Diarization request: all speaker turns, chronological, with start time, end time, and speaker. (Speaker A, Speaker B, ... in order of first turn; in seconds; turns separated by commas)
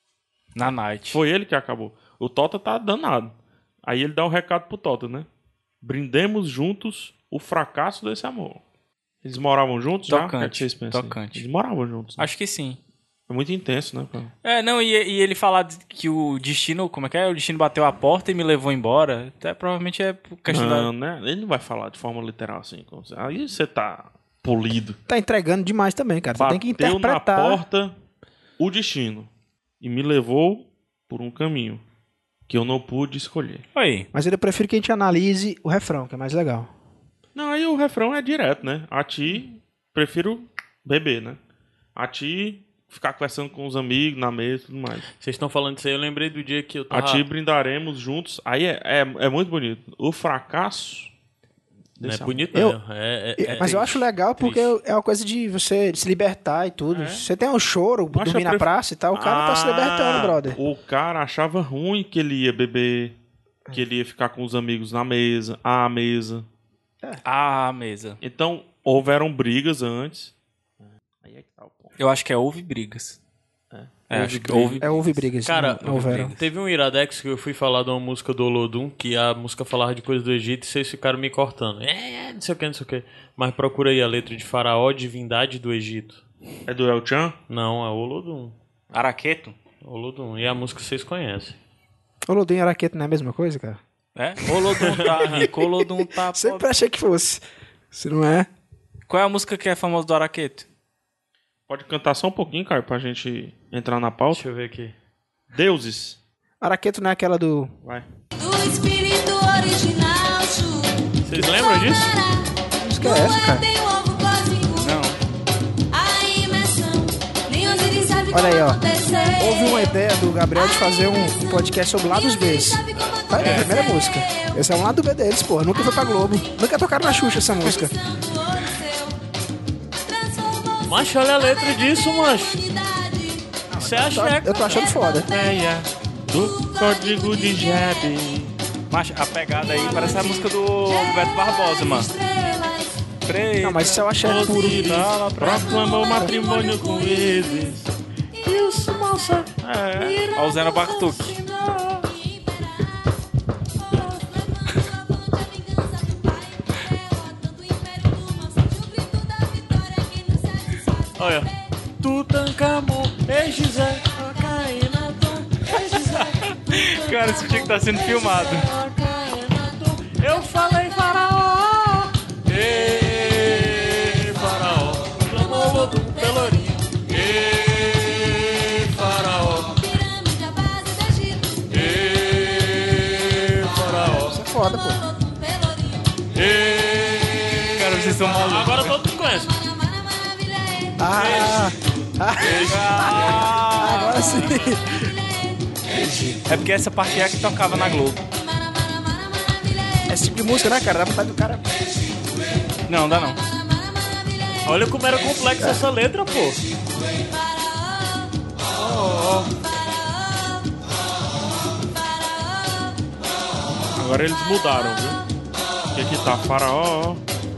Speaker A: 0.6-1.2, Speaker B: 1.1-3.3, Speaker B: 3.9-5.3, Speaker B: 5.8-8.6, Speaker B: 9.2-12.3, Speaker A: 10.1-11.4, Speaker A: 12.2-12.8, Speaker B: 13.3-14.3, Speaker A: 14.4-20.9, Speaker B: 20.5-25.0, Speaker C: 25.1-27.6, Speaker B: 26.4-27.9, Speaker B: 28.6-29.3, Speaker B: 29.8-31.8, Speaker B: 32.5-33.6, Speaker A: 33.8-34.1, Speaker C: 34.1-36.7, Speaker B: 37.4-41.4, Speaker B: 42.0-45.1, Speaker D: 45.2-47.3, Speaker B: 46.9-51.1, Speaker B: 52.0-52.5, Speaker D: 52.0-54.7, Speaker C: 53.4-60.6, Speaker A: 53.5-53.9, Speaker B: 56.9-57.3, Speaker B: 58.1-63.1, Speaker B: 63.7-66.5, Speaker A: 67.2-68.2, Speaker B: 68.2-72.0, Speaker A: 72.0-73.2, Speaker B: 73.7-75.2, Speaker A: 74.1-75.2, Speaker C: 74.8-76.3, Speaker D: 75.5-86.2, Speaker A: 75.8-76.4, Speaker B: 86.7-87.4, Speaker D: 87.5-88.5, Speaker A: 88.9-89.6, Speaker D: 89.8-91.6, Speaker C: 92.3-93.8, Speaker A: 94.2-96.7, Speaker D: 94.8-95.5, Speaker C: 95.4-98.5, Speaker A: 99.1-100.7, Speaker B: 101.7-104.4, Speaker D: 104.3-104.9, Speaker B: 105.5-106.2, Speaker C: 106.6-107.7, Speaker E: 108.4-115.0, Speaker D: 111.2-112.1, Speaker C: 112.8-113.6, Speaker A: 114.8-115.2, Speaker E: 115.9-124.9, Speaker C: 118.3-118.8, Speaker C: 119.4-127.9, Speaker A: 123.4-123.8, Speaker E: 125.7-129.2, Speaker E: 130.0-138.4, Speaker D: 130.9-132.6, Speaker D: 133.8-134.9, Speaker C: 133.9-135.3, Speaker B: 135.3-138.5, Speaker A: 138.9-142.1, Speaker E: 139.6-143.0, Speaker A: 143.3-145.8, Speaker C: 143.6-145.0, Speaker B: 144.2-147.9, Speaker E: 145.4-148.7, Speaker D: 148.4-152.1, Speaker B: 149.6-150.3, Speaker A: 150.4-151.4, Speaker E: 150.5-151.2, Speaker E: 152.0-153.1, Speaker E: 153.8-161.7, Speaker D: 161.2-161.5, Speaker D: 162.0-179.8, Speaker E: 164.1-165.1, Speaker E: 165.7-166.0, Speaker A: 166.7-168.7, Speaker E: 167.1-169.3, Speaker E: 170.3-171.1, Speaker E: 173.2-174.1, Speaker E: 175.2-177.1, Speaker E: 179.6-182.3, Speaker D: 181.7-184.4, Speaker E: 184.2-186.3, Speaker C: 184.3-185.0, Speaker D: 186.3-189.5, Speaker A: 187.8-188.8, Speaker E: 188.0-191.7, Speaker C: 191.0-195.0, Speaker D: 191.1-191.6, Speaker D: 192.4-193.5, Speaker A: 192.7-194.3, Speaker E: 193.1-195.8, Speaker C: 195.9-196.7, Speaker A: 196.5-198.2, Speaker E: 198.2-200.6, Speaker C: 200.1-201.7, Speaker A: 202.9-203.4, Speaker E: 203.0-205.4, Speaker D: 204.7-206.6, Speaker E: 206.9-208.3, Speaker B: 208.8-209.5, Speaker E: 208.9-213.0, Speaker B: 214.0-215.2, Speaker E: 214.1-215.2, Speaker B: 215.9-217.2